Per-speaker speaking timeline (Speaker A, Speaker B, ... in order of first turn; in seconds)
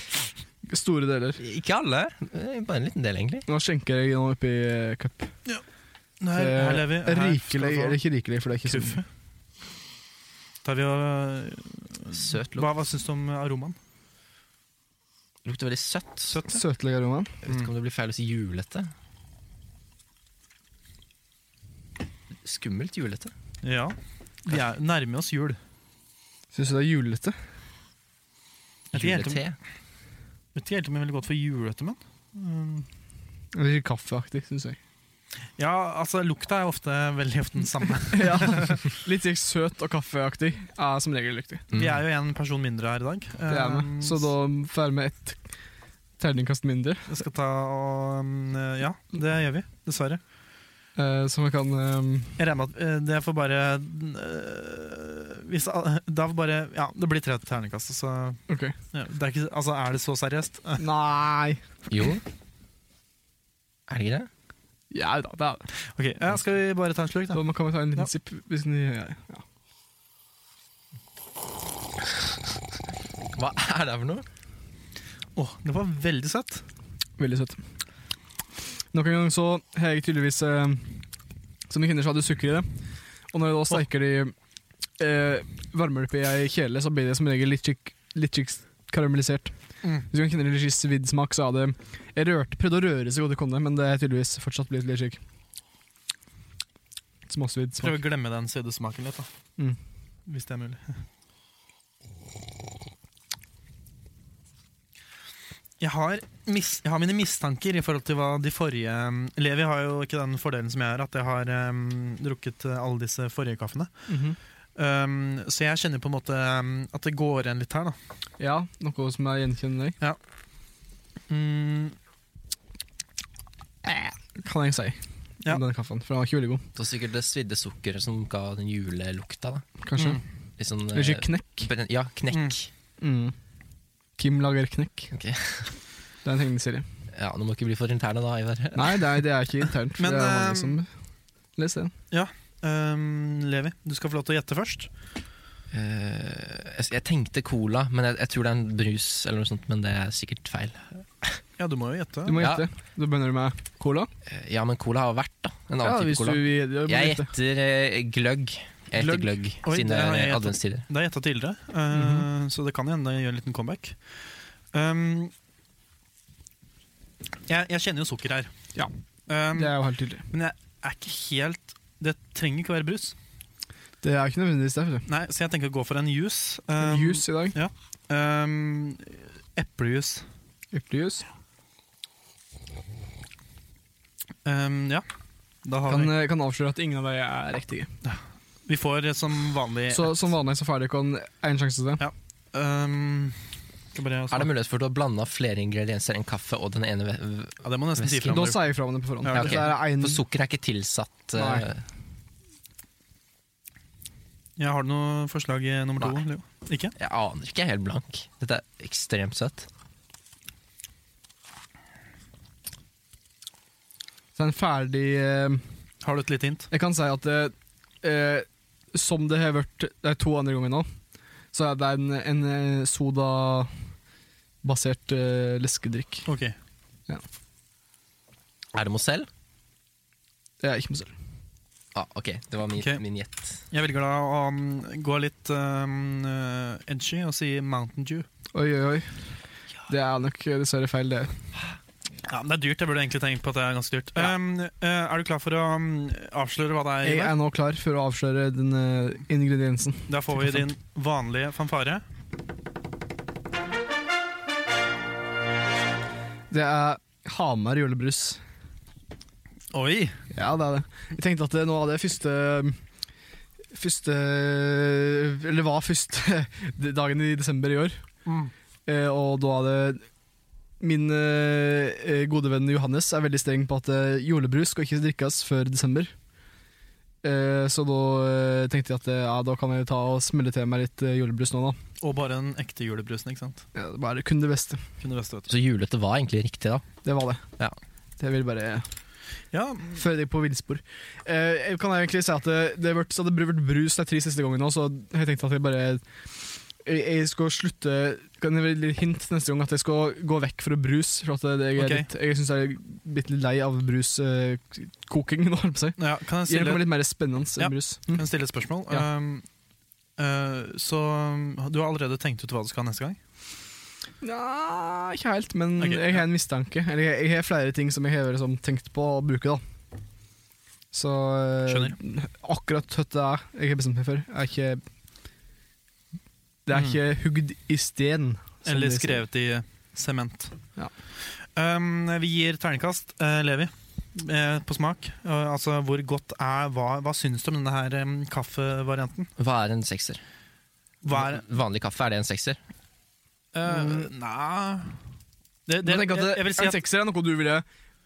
Speaker A: 0.7-1.4, 3.5-5.3, 6.3-9.0, 16.5-17.3, 26.5-27.4, 33.5-34.8, 38.1-41.6, 43.5-45.5, 46.2-47.1, 51.0-52.4, 58.5-58.7, 60.8-61.6, 64.9-65.7, 67.3-69.4, 77.2-77.6, 78.9-81.0, 81.7-82.7, 83.3-84.3, 85.0-89.5, 90.1-95.2, 97.3-98.0, 114.1-114.4, 118.4-120.0, 123.8-126.6, 129.8-130.2, 130.9-131.7, 133.0-133.3, 134.2-135.1, 136.2-136.8, 138.8-140.9, 141.6-141.9, 152.3-154.1, 155.8-157.3, 161.9-162.3, 169.5-170.2, 174.0-175.1, 176.8-177.6, 180.7-181.2, 185.9-187.9, 189.9-192.0, 198.3-200.2, 201.3-201.7, 214.3-215.6, 216.7-220.9, 221.5-223.7, 224.6-226.3, 230.6-231.1, 238.5-239.2, 239.9-241.3, 247.0-250.7, 256.5-258.4, 260.3-262.8, 263.7-268.0, 268.9-270.1, 270.8-276.1, 277.2-281.8, 283.7-284.8, 287.0-287.4, 288.2-288.9, 289.9-308.2, 314.2-319.6, 320.9-324.8, 326.6-329.2, 343.7-343.9, 345.8-347.6
Speaker B: 1.4-3.5, 12.1-12.7, 15.4-16.4, 17.4-18.9, 22.4-23.3, 28.9-29.6, 41.7-42.0, 61.9-62.2, 63.9-64.3, 73.3-74.2, 126.7-129.7, 130.6-132.7, 135.1-135.8, 137.1-139.2, 145.7-151.4, 152.4-152.7, 154.2-160.8, 194.3-198.5, 199.3-201.8, 206.9-209.7, 228.7-229.3, 231.9-233.6, 285.5-286.8, 339.4-340.2, 341.1-342.6
Speaker C: 6.2-8.0, 8.6-9.0, 10.6-13.8, 16.3-16.6, 23.6-25.6, 28.9-29.4, 30.5-32.9, 35.6-38.8, 41.7-44.3, 47.1-50.2, 52.4-60.8, 65.9-67.4, 75.3-76.6, 97.8-99.3, 100.3-101.0, 105.8-114.0, 114.8-118.0, 121.3-122.0, 130.0-130.2, 132.3-132.6, 140.0-140.8, 142.1-144.9, 151.6-152.4, 159.6-165.3, 167.5-168.5, 169.3-173.1, 175.1-180.2, 184.4-185.1, 185.6-186.1, 188.0-190.2, 192.0-193.4, 193.9-194.5, 197.6-198.6, 199.2-199.7, 204.6-206.9, 216.0-216.7, 226.2-226.5, 233.7-238.3, 242.2-247.3, 250.1-252.0, 259.7-260.2, 268.2-268.5, 282.0-283.6, 285.0-285.5, 289.5-289.9, 301.8-302.1, 306.0-306.9, 307.6-309.4, 310.2-313.2, 315.8-316.2, 321.7-321.9, 326.7-327.0, 328.6-330.6, 331.5-339.3, 341.0-341.4, 343.5-345.0, 345.7-346.8